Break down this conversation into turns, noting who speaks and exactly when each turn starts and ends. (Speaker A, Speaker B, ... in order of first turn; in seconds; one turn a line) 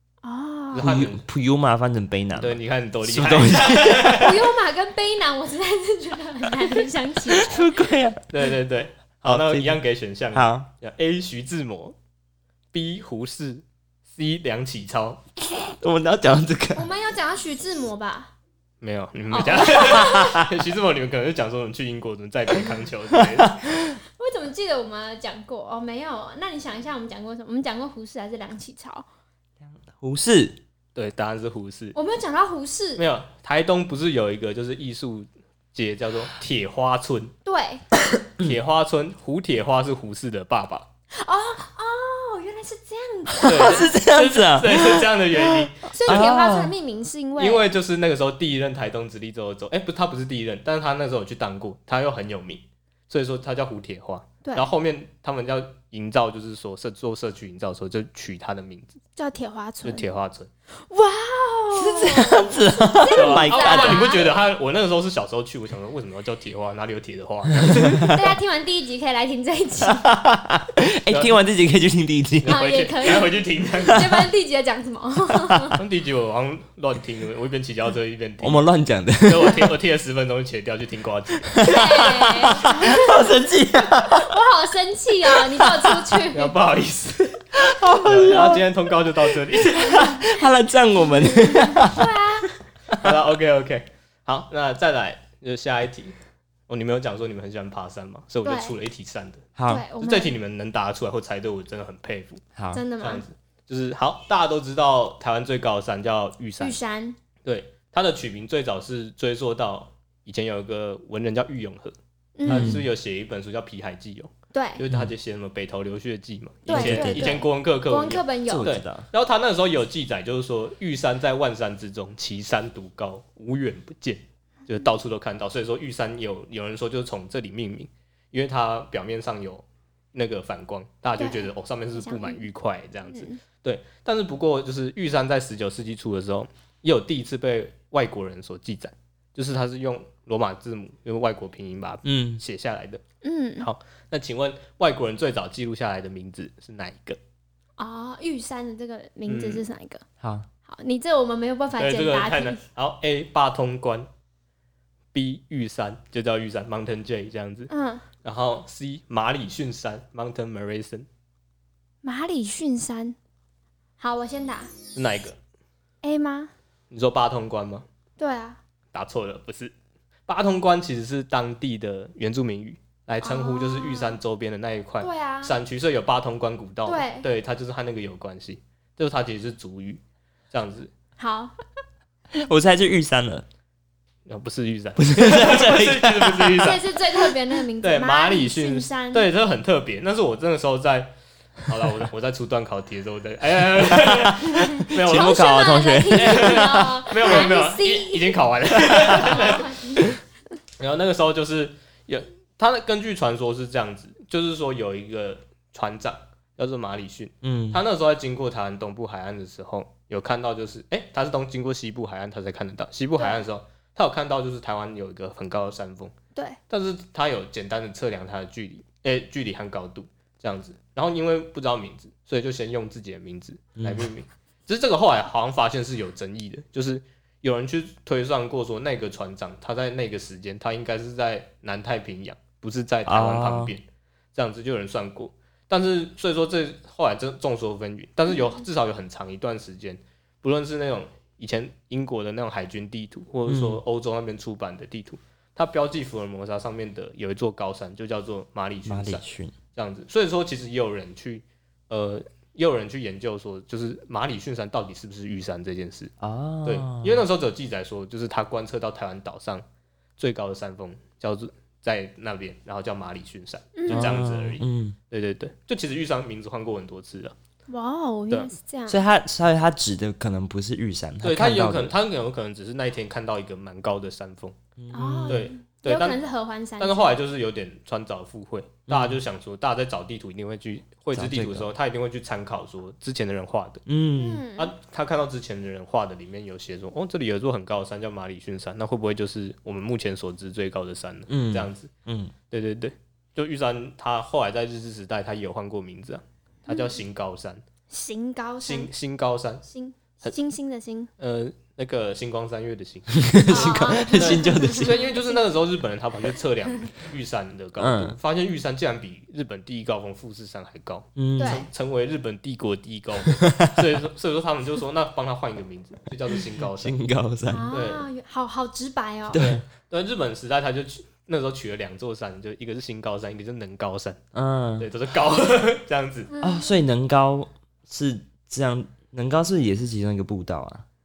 Speaker A: 0.2-0.9
Speaker B: 0.7-1.2
Speaker C: 0.8-4.1
Speaker B: 2.3-4.5
Speaker A: 4.1-7.9
Speaker C: 7.3-8.2
Speaker B: 8.3-11.9
Speaker C: 9.2-9.8
Speaker C: 10.3-10.7
Speaker B: 12.7-15.2
Speaker C: 15.7-16.9
Speaker A: 16.7-18.3
Speaker B: 18.8-23.6
Speaker A: 19.3-20.4
Speaker C: 19.9-20.4
Speaker C: 23.2-23.9
Speaker A: 24.2-29.1
Speaker C: 29.8-30.6
Speaker B: 30.9-31.9
Speaker A: 31.9-33.0
Speaker B: 33.0-37.3
Speaker A: 37.5-37.8
Speaker C: 38.1-38.6
Speaker B: 38.4-40.9
Speaker A: 41.1-43.9
Speaker C: 43.3-46.7
Speaker B: 43.4-46.2
Speaker A: 45.9-47.6
Speaker B: 47.4-59.0
Speaker A: 59.1-60.0
Speaker B: 59.8-60.5
Speaker A: 60.9-64.4
Speaker C: 61.7-64.1
Speaker B: 63.1-68.3
Speaker C: 67.7-68.1
Speaker A: 68.0-70.1
Speaker C: 69.9-72.6
Speaker B: 71.1-71.3
Speaker B: 72.4-74.0
Speaker A: 72.5-75.8
Speaker B: 75.7-78.6
Speaker C: 78.4-79.7
Speaker B: 79.2-81.8
Speaker C: 81.5-84.4
Speaker A: 81.6-83.3
Speaker A: 84.0-86.5
Speaker C: 85.3-86.2
Speaker B: 86.3-87.4
Speaker C: 87.5-92.1
Speaker B: 88.0-90.2
Speaker A: 91.1-92.5
Speaker B: 93.0-96.2
Speaker B: 96.7-102.4
Speaker A: 98.4-98.7
Speaker C: 99.6-99.8
Speaker A: 99.7-100.3
Speaker C: 102.5-102.8
Speaker A: 102.7-103.2
Speaker B: 103.0-106.8
Speaker A: 106.6-107.2
Speaker B: 107.4-143.0
Speaker A: 112.4-112.8
Speaker C: 112.5-112.8
Speaker A: 114.5-114.8
Speaker C: 116.7-117.4
Speaker A: 116.7-118.7
Speaker C: 118.5-119.1
Speaker A: 131.2-132.4
Speaker A: 133.1-133.4
Speaker C: 142.0-142.4
Speaker A: 143.2-143.7
Speaker B: 143.6-147.2
Speaker A: 147.8-150.0
Speaker B: 149.2-149.7
Speaker C: 150.2-150.5
Speaker A: 150.7-152.6
Speaker B: 151.8-154.1
Speaker B: 155.1-157.7
Speaker A: 157.7-158.0
Speaker B: 158.2-161.1
Speaker A: 162.0-163.2
Speaker A: 164.0-164.7
Speaker B: 164.9-165.4
Speaker A: 166.0-166.5
Speaker B: 166.9-167.8
Speaker A: 168.2-168.6
Speaker B: 168.9-169.7
Speaker B: 170.3-180.9
Speaker A: 173.2-174.2
Speaker A: 175.0-175.6
Speaker A: 176.8-177.3
Speaker A: 181.2-181.5
Speaker C: 182.4-183.4
Speaker B: 184.2-186.9
Speaker C: 185.0-186.6
Speaker A: 186.6-189.3
Speaker B: 187.8-191.1
Speaker B: 191.7-195.5
Speaker C: 193.9-197.3
Speaker A: 194.8-198.4
Speaker B: 196.1-199.7
Speaker C: 198.9-199.2
Speaker A: 199.1-200.2
Speaker B: 200.8-216.1
Speaker C: 207.4-207.8
Speaker B: 216.7-256.1
Speaker C: 223.8-224.1
Speaker C: 233.1-233.7
Speaker C: 243.5-243.8
Speaker C: 248.8-249.5
Speaker C: 256.2-257.2
Speaker B: 256.6-259.6
Speaker B: 260.2-267.4
Speaker A: 263.7-264.2
Speaker C: 263.9-265.0
Speaker A: 267.7-269.0
Speaker B: 268.3-268.5
Speaker C: 268.9-271.9
Speaker B: 271.2-274.6
Speaker C: 274.8-275.5
Speaker A: 274.9-277.2
Speaker B: 275.3-276.2
Speaker B: 276.8-283.8
Speaker C: 278.9-279.2
Speaker C: 281.1-281.7
Speaker C: 283.9-284.4
Speaker A: 284.1-284.7
Speaker B: 284.6-291.9
Speaker C: 291.3-292.3
Speaker B: 292.5-297.6
Speaker A: 296.7-296.9
Speaker A: 297.9-298.9
Speaker B: 298.6-299.6
Speaker A: 299.7-301.1
Speaker B: 301.2-316.9
Speaker C: 303.1-305.0
Speaker A: 303.4-305.6
Speaker C: 307.8-308.2
Speaker C: 311.1-311.6
Speaker A: 311.4-311.7
Speaker C: 313.3-313.7
Speaker C: 316.8-317.8
Speaker A: 317.5-319.4
Speaker B: 317.7-318.1
Speaker C: 319.3-319.6
Speaker B: 319.3-324.2
Speaker C: 324.3-324.9
Speaker B: 324.8-326.3
Speaker A: 326.3-326.8
Speaker C: 326.4-330.8